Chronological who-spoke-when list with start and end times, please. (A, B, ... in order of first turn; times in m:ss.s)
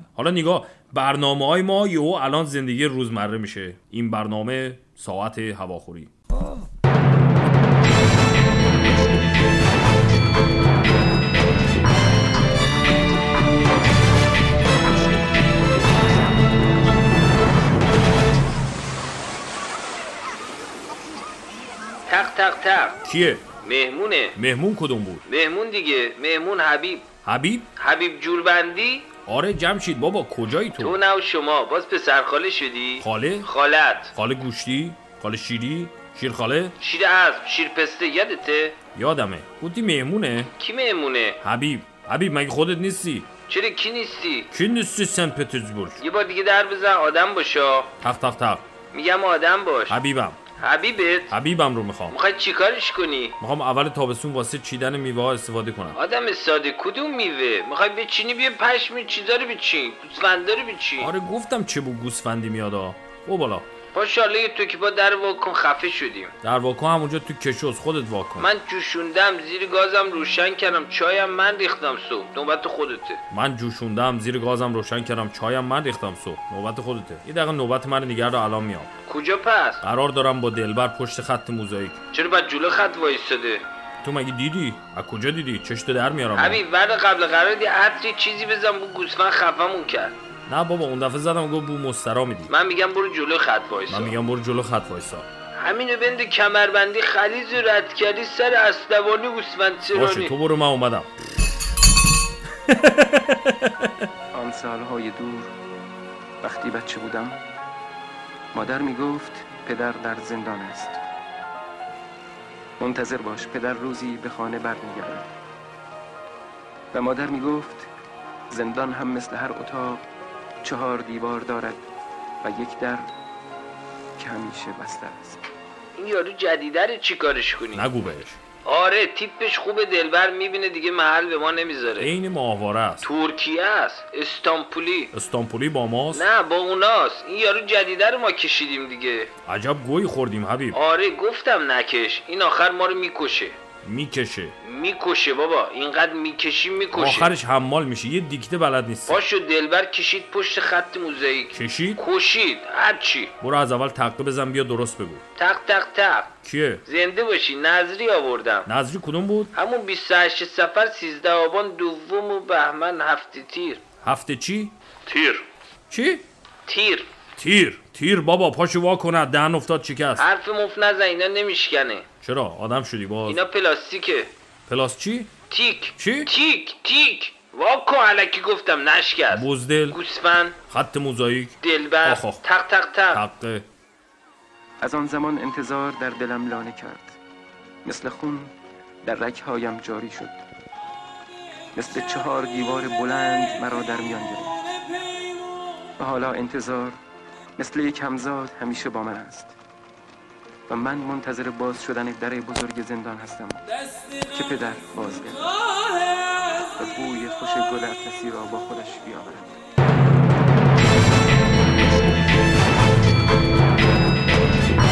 0:00.1-0:06.1 A
0:22.1-0:23.0 B
0:23.0-0:23.5 A
0:23.6-0:24.4 B
0:24.4-0:25.2 A
0:25.2-0:27.1 B
0:27.2-0:27.7 A
0:27.8-0:29.1 B
0:29.2-0:31.0 A
0:30.8-0:34.1 B
0:33.0-0:33.5 A
0:34.1-0:36.8 A
0:36.8-0:38.8 B
0:38.9-0:40.5 A
0:40.5-0:41.4 B
0:41.4-0:43.3 A
0:43.5-0:44.5 B
0:44.5-0:46.0 A
0:46.0-0:47.9 B
0:48.0-0:48.6 A
0:48.9-0:50.0 B
0:49.9-0:50.4 A
0:50.5-0:51.3 B
0:51.3-0:52.2 A
0:52.1-0:53.4 B
0:53.4-0:56.0 A
0:55.9-1:01.1 B
1:01.0-1:03.6 A
1:03.9-1:06.3 B
1:06.4-1:08.5 A
1:08.4-1:13.2 B
1:13.3-1:18.9 A
1:19.0-1:19.8 B
1:19.8-1:22.0 A
1:22.1-1:23.6 B
1:24.0-1:26.6 A
1:26.3-1:30.1 B
1:30.5-1:32.5 A
1:32.5-1:34.1 B
1:33.9-1:35.2 A
1:35.6-1:40.3 B
1:39.9-1:41.1 A
1:42.6-1:44.0 A
1:44.3-1:45.5 C
1:46.4-1:47.4 C
1:48.5-1:51.0 C
1:52.8-1:55.3 C
1:56.9-1:57.9 C
1:58.5-2:00.0 C
2:00.6-2:01.8 C
2:02.4-2:03.1 C
2:04.2-2:05.4 C
2:06.0-2:07.9 B
2:07.7-2:08.4 A
2:08.6-2:12.1 B
2:12.0-2:13.1 A
2:13.0-2:15.1 B
2:15.1-2:16.2 A
2:16.1-2:19.3 B
2:19.4-2:20.8 A
2:20.7-2:23.6 B
2:23.8-2:24.6 A
2:24.6-2:27.3 B
2:26.9-2:29.2 A
2:29.1-2:33.3 B
2:31.5-2:32.0 A
2:33.4-2:35.2 A
2:35.4-2:36.3 B
2:36.4-2:36.8 A
2:36.8-2:38.7 B
2:38.6-2:39.5 A
2:39.5-2:43.8 B
2:44.0-2:44.7 A
2:45.0-2:45.4 B
2:45.9-2:46.2 A
2:46.6-2:47.1 B
2:47.4-2:50.3 A
2:50.2-2:52.0 B
2:52.2-2:53.4 A
2:53.3-2:54.3 B
2:54.7-2:55.3 A
2:55.5-3:00.6 B
2:56.0-2:56.3 A
2:59.3-3:00.0 A
3:00.7-3:02.4 A
3:01.6-3:03.2 B
3:03.1-3:03.7 A
3:04.8-3:07.2 C
3:07.8-3:10.4 C
3:11.7-3:14.6 C
3:16.0-3:17.0 C
3:17.6-3:19.6 C
3:20.7-3:25.7 C
3:26.8-3:29.5 C